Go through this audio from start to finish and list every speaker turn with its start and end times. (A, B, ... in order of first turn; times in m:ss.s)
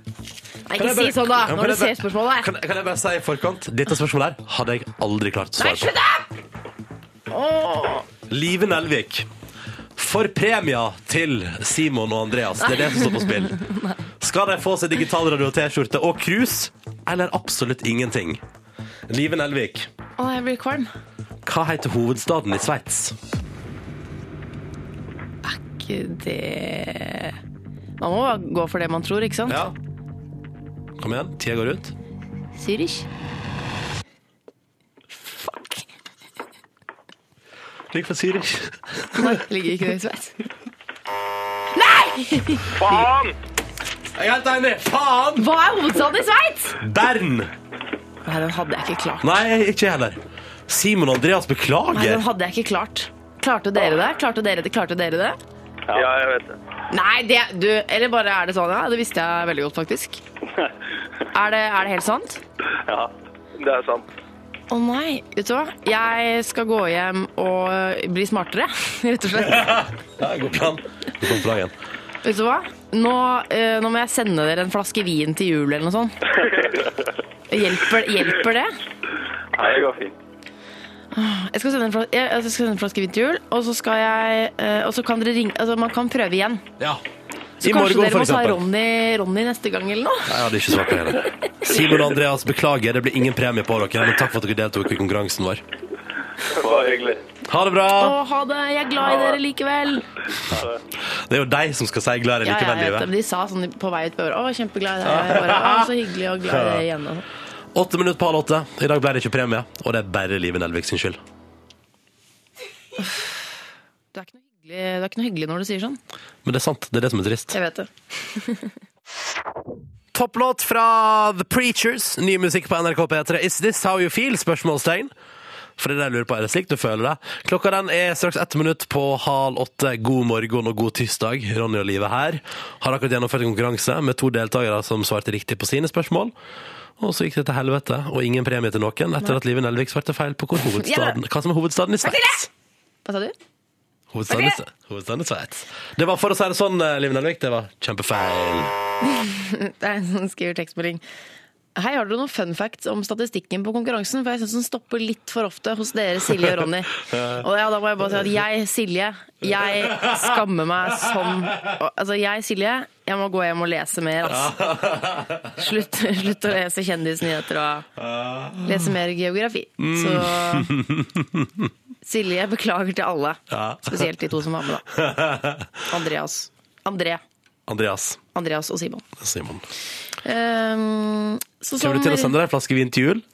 0:00.7-0:02.5 A
0:00.8-0:05.9 B
0:05.6-0:06.3 A
0:07.3-0:08.1 A
0:08.3-0:09.3 B
0:10.0-0:13.6 B
0:12.7-0:14.0 A
0:14.2-0:18.4 B
0:19.1-0:19.9 B
0:20.2-0:20.9 A
0:21.4-0:23.2 B
0:25.4-0:27.4 A
0:28.0-0:29.6 A
0:29.5-0:29.8 B
0:31.0-0:32.0 B
0:32.6-0:33.1 A
0:35.3-0:35.8 A
0:37.9-0:39.4 B
0:39.2-0:40.4 A
0:41.8-0:42.9 A
0:42.7-0:43.4 C
0:44.2-0:45.5 B
0:45.4-0:46.8 A
0:46.8-0:47.5 B
0:48.2-0:49.4 A
0:49.2-0:52.2 B
0:51.9-0:55.4 A
0:55.9-0:56.6 C
0:56.9-1:00.2 A
1:01.3-1:02.4 A
1:02.9-1:03.1 D
1:03.6-1:04.1 C
1:04.7-1:09.8 A
1:09.5-1:11.7 B
1:12.2-1:16.2 A
1:17.5-1:18.7 A
1:19.5-1:20.1 D
1:21.1-1:26.6 A
1:27.6-1:28.6 B
1:27.6-1:30.4 A
1:30.3-1:35.6 B
1:36.6-1:37.2 D
1:36.6-1:37.2 C
1:37.5-1:38.2 B
1:38.0-1:40.1 A
1:40.5-1:40.8 D
1:41.1-1:43.1 B
1:42.4-1:47.2 A
1:45.0-1:45.9 B
1:46.5-1:46.8 B
1:47.7-1:51.2 B
1:53.0-1:53.3 A
1:54.1-1:56.0 A
1:56.4-1:57.6 B
1:57.5-1:58.7 A
2:00.1-2:05.1 B
2:05.8-2:16.4 B
2:17.0-2:22.5 B
2:20.7-2:21.2 A
2:22.0-2:22.4 A
2:23.0-2:23.3 A
2:24.1-2:28.7 B
2:24.3-2:24.6 A
2:29.0-2:31.0 A
2:31.8-2:44.6 A
2:39.7-2:40.4 B
2:41.4-2:41.7 B
2:44.2-2:45.6 B
2:45.6-2:47.9 A
2:48.0-2:48.9 B
2:48.6-2:50.7 A
2:49.8-2:51.7 B
2:52.0-2:54.9 A
2:53.5-2:54.1 B
2:54.9-2:55.7 B
2:55.9-2:57.2 A
2:57.7-2:58.2 B
2:58.4-2:59.0 A
2:59.2-2:59.7 B
3:00.2-3:02.4 A
3:01.8-3:03.2 B